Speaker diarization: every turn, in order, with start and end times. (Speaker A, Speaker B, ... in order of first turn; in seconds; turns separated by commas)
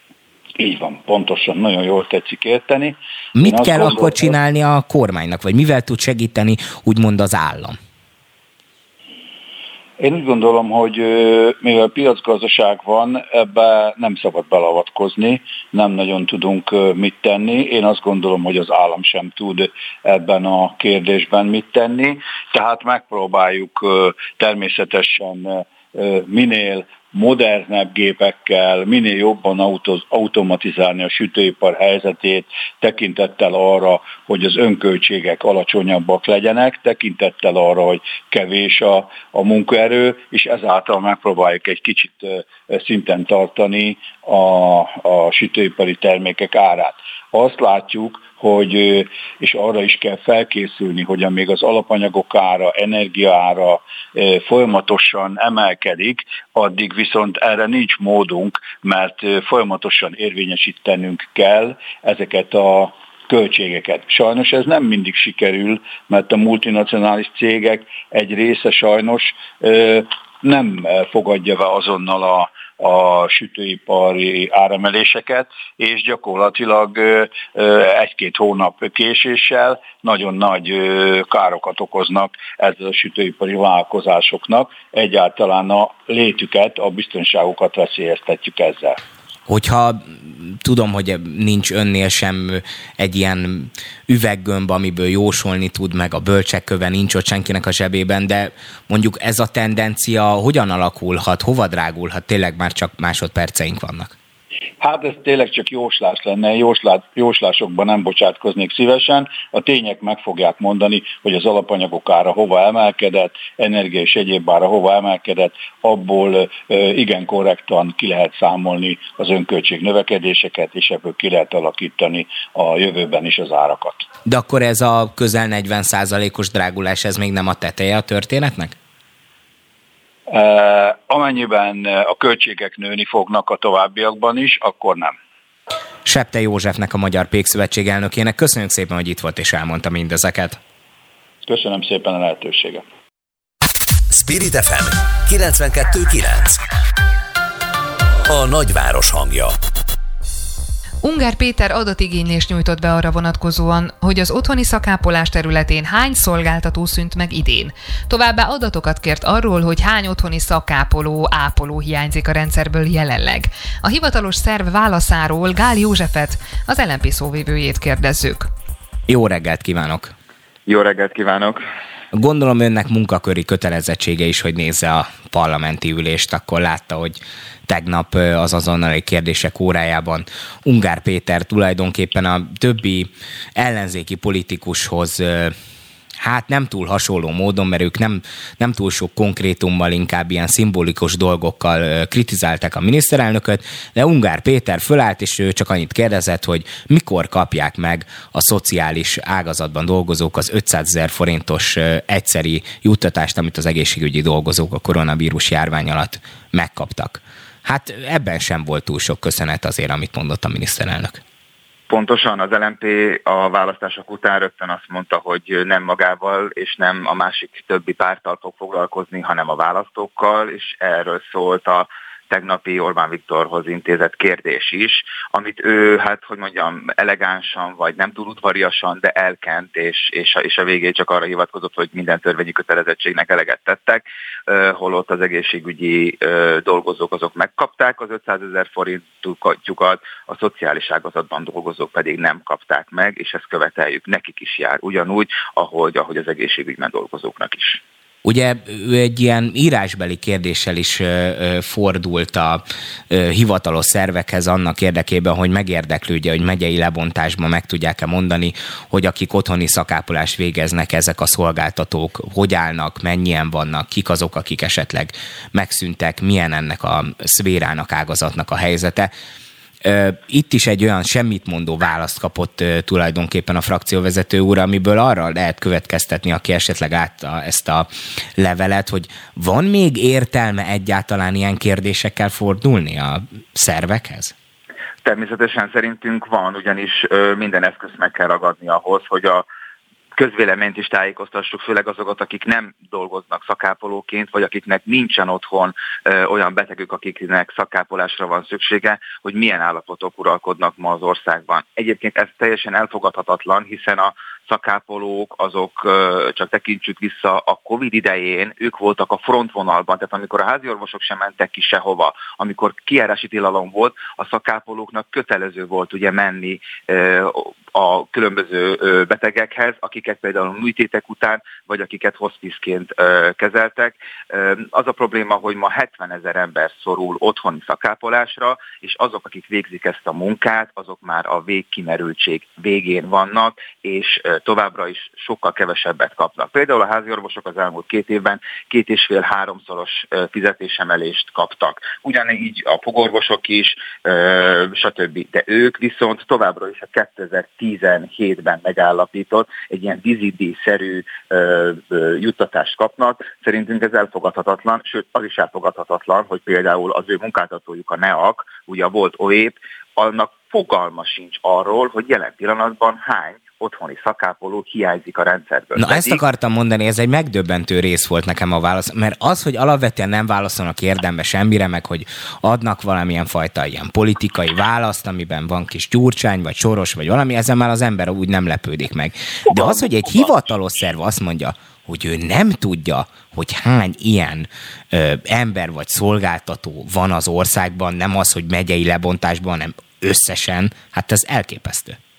Speaker A: 0.6-4.3, Speaker B: 3.4-7.8, Speaker A: 10.0-89.0, Speaker B: 89.5-104.1, Speaker A: 104.8-124.0, Speaker B: 124.3-128.8, Speaker A: 130.3-135.1, Speaker B: 136.1-140.6, Speaker A: 141.5-142.8, Speaker C: 144.1-146.6, Speaker C: 148.3-149.6, Speaker D: 151.0-168.5, Speaker B: 169.1-170.1, Speaker E: 170.7-171.6, Speaker B: 172.1-185.6, Speaker B: 186.2-211.2, Speaker E: 211.9-247.8, Speaker B: 248.2-269.1, Speaker B: 269.8-284.3, Speaker E: 285.0-289.5, Speaker E: 290.1-366.2, Speaker B: 365.8-392.0